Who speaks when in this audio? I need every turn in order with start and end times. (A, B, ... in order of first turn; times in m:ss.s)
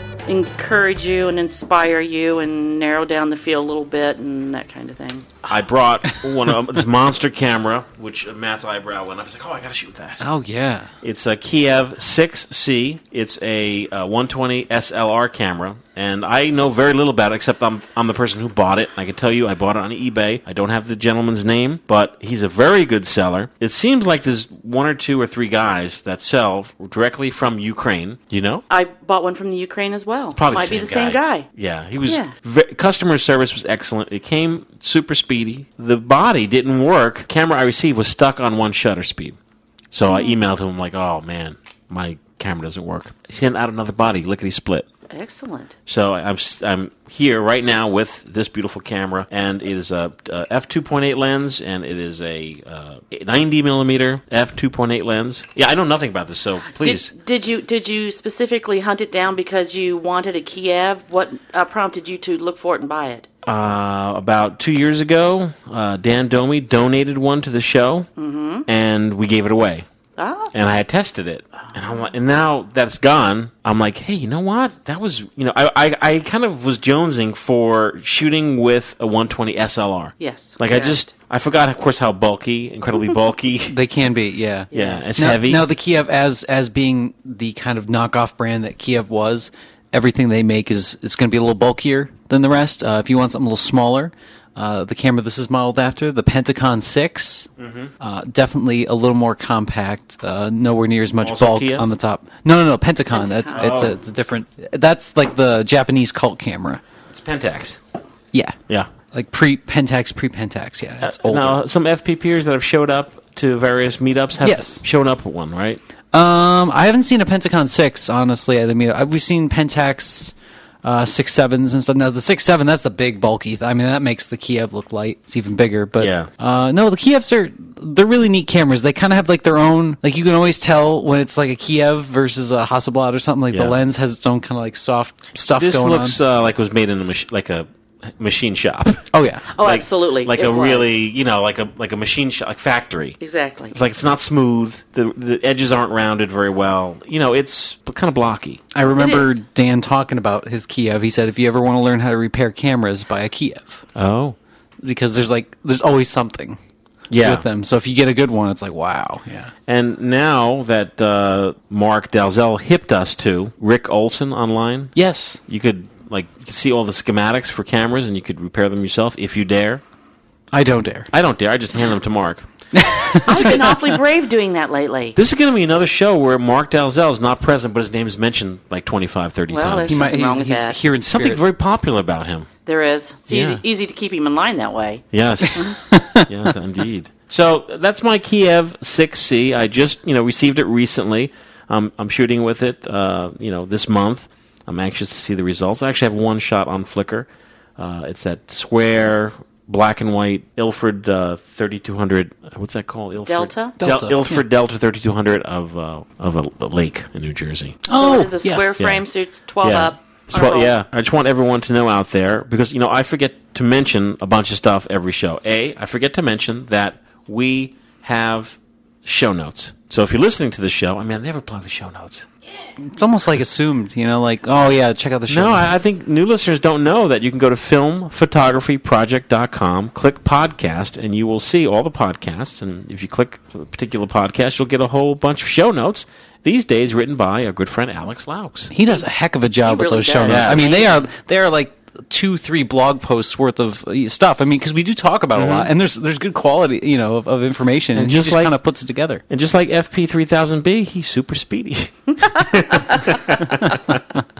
0:00.2-0:05.3 A
0:05.5-0:10.2 B
0:10.2-0:10.9 C
0:11.0-0:28.6 B
0:28.7-0:31.5 A
0:30.4-0:39.4 B
0:32.0-0:32.3 A
0:39.9-0:44.9 B
0:40.1-0:40.4 A
0:45.1-0:45.7 A
0:45.9-0:57.1 B
0:56.8-1:03.3 A
1:03.4-1:08.1 B
1:08.2-1:08.6 A
1:08.6-1:09.9 B
1:10.2-1:10.5 A
1:10.5-1:23.8 B
1:20.2-1:21.1 A
1:23.7-1:46.8 C
1:24.7-1:25.0 A
1:24.7-1:25.7 B
1:37.6-1:37.9 B
1:41.2-1:41.8 B
1:43.1-1:43.7 A
1:43.6-1:44.0 B
1:47.1-1:47.8 B
1:49.1-1:51.6 C
1:51.0-1:55.8 B
1:54.4-1:54.8 C
1:56.1-2:16.2 C
2:06.0-2:06.3 B
2:13.5-2:13.8 B
2:15.6-2:23.2 B
2:19.1-2:19.4 C
2:19.6-2:21.0 A
2:23.2-2:23.8 A
2:23.7-2:28.6 B
2:28.7-2:33.8 C
2:28.8-2:29.4 A
2:34.0-2:34.4 B
2:34.8-2:36.6 C
2:37.1-2:37.4 B
2:37.2-2:39.5 C
2:39.7-2:44.9 B
2:44.9-2:45.4 C
2:45.5-2:49.8 B
2:50.5-2:51.1 C
2:51.1-2:52.5 B
2:52.7-2:54.0 C
2:53.0-2:53.5 B
2:53.2-2:55.2 A
2:55.1-3:00.0 B
2:59.5-3:00.8 A
2:59.9-3:01.4 C
3:01.1-3:02.5 B
3:02.6-3:05.8 A
3:03.3-3:03.6 B
3:05.1-3:27.8 B
3:05.9-3:06.3 C
3:23.3-3:23.8 A
3:23.8-3:24.4 C
3:27.8-3:28.7 C
3:27.9-3:30.7 A
3:28.8-3:29.0 B
3:29.6-3:42.3 B
3:42.8-3:45.8 C
3:45.3-3:58.7 B
3:58.7-4:09.2 C
3:59.6-4:01.0 A
4:00.2-4:00.6 B
4:05.3-4:05.7 B
4:07.9-4:08.6 B
4:09.3-4:14.0 B